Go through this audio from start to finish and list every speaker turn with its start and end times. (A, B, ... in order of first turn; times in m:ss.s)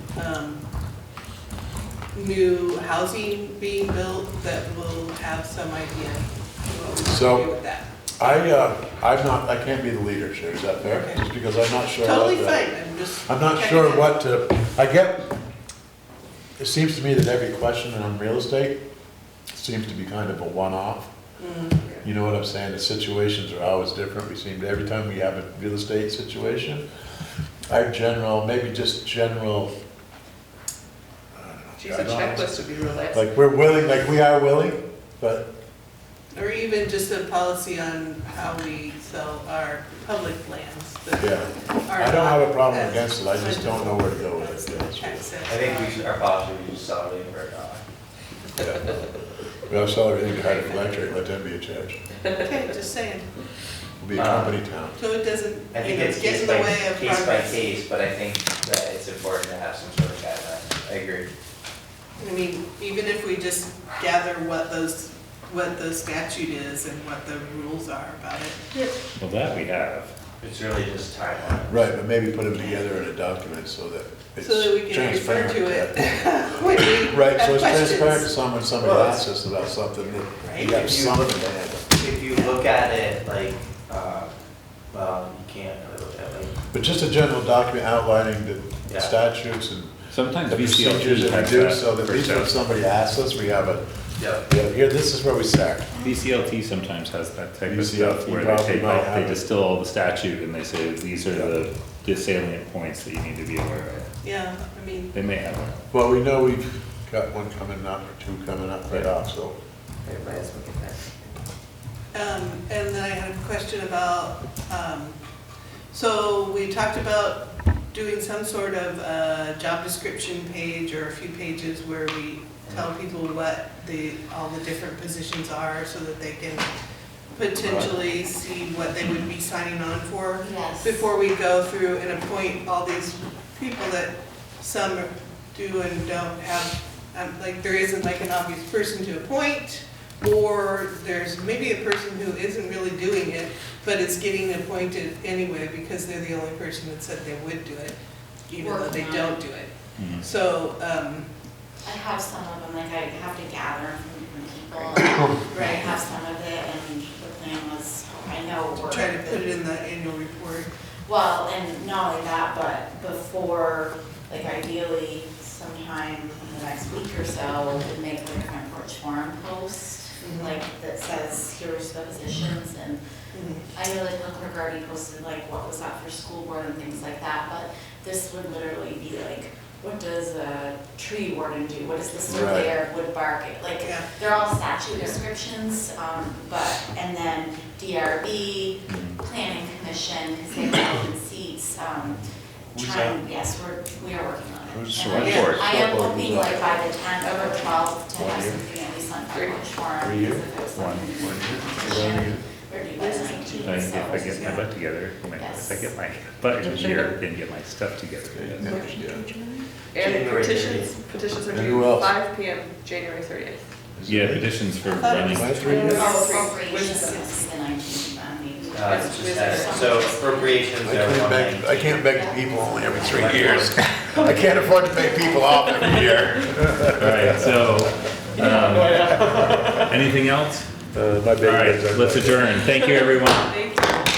0:00.2-0:00.7 A
0:02.1-0:08.4 A
0:07.1-0:07.5 B
0:08.2-0:12.7 B
0:10.9-0:11.2 A
0:12.0-0:14.2 A
0:13.3-0:15.3 B
0:16.6-0:18.8 B
0:19.5-0:21.1 B
0:21.4-0:22.0 A
0:22.0-0:26.8 B
0:27.7-0:29.7 B
0:31.3-0:35.5 B
0:31.8-0:33.3 C
0:32.2-0:32.9 A
0:36.3-0:46.0 A
0:41.2-0:45.3 B
0:45.5-0:47.8 D
0:48.6-0:49.0 B
0:49.7-0:52.0 B
0:52.4-0:53.3 A
0:54.0-0:55.0 B
0:54.2-0:54.6 D
0:55.0-0:57.6 A
0:55.7-1:01.3 D
1:02.2-1:08.6 A
1:09.2-1:10.1 E
1:10.4-1:11.9 D
1:11.7-1:16.1 B
1:14.4-1:18.3 A
1:16.9-1:21.9 B
1:18.8-1:19.3 D
1:20.4-1:20.8 A
1:20.7-1:21.3 D
1:21.9-1:26.5 D
1:26.7-1:29.9 B
1:28.9-1:29.1 D
1:30.1-1:32.5 E
1:30.5-1:33.8 B
1:34.2-1:34.5 D
1:34.4-1:35.9 B
1:36.0-1:44.0 E
1:37.7-1:39.4 B
1:41.3-1:41.6 B
1:44.2-1:45.1 A
1:45.1-1:45.8 E
1:45.9-1:49.6 B
1:50.0-1:51.3 C
1:52.1-1:55.2 A
1:55.9-2:06.7 A
2:07.3-2:28.0 A
2:07.6-2:07.9 B
2:10.4-2:11.0 F
2:28.5-2:31.3 A
2:28.6-2:29.3 F
2:30.0-2:30.3 E
2:31.8-2:39.4 F
2:35.5-2:35.9 A
2:38.8-2:40.7 A
2:41.1-2:53.0 F
2:50.2-2:50.6 A
2:53.3-2:53.7 A
2:53.7-3:12.2 F
3:02.3-3:02.7 B
3:03.8-3:04.2 A
3:04.9-3:05.2 C
3:08.9-3:09.2 E
3:12.7-3:13.2 B
3:12.8-3:24.8 F
3:14.7-3:16.8 B
3:15.0-3:15.6 E
3:15.2-3:15.6 A
3:18.2-3:18.6 B
3:19.3-3:19.6 C
3:20.0-3:20.5 B
3:20.7-3:21.1 E
3:21.2-3:22.5 B
3:23.0-3:23.6 C
3:23.6-3:28.7 E
3:24.2-3:24.6 A
3:25.3-3:26.4 F
3:26.6-3:27.1 B
3:26.7-3:27.2 C
3:28.3-3:29.4 B
3:28.6-3:33.7 C
3:28.6-3:29.0 A
3:30.0-3:31.0 D
3:31.5-3:32.2 B
3:34.0-3:36.3 B
3:34.1-3:35.6 E
3:34.9-3:40.7 F
3:35.2-3:37.5 C
3:38.7-3:42.2 D
3:38.7-3:40.2 C
3:40.8-3:47.9 B
3:42.1-3:44.3 F
3:42.8-3:44.0 D
3:45.3-3:46.0 F
3:47.0-3:49.2 E
3:48.4-3:50.0 B
3:48.8-3:49.1 F
3:49.0-3:49.7 C
3:49.9-3:50.7 E
3:50.9-3:52.6 B
3:51.4-3:53.5 E
3:53.6-3:54.0 C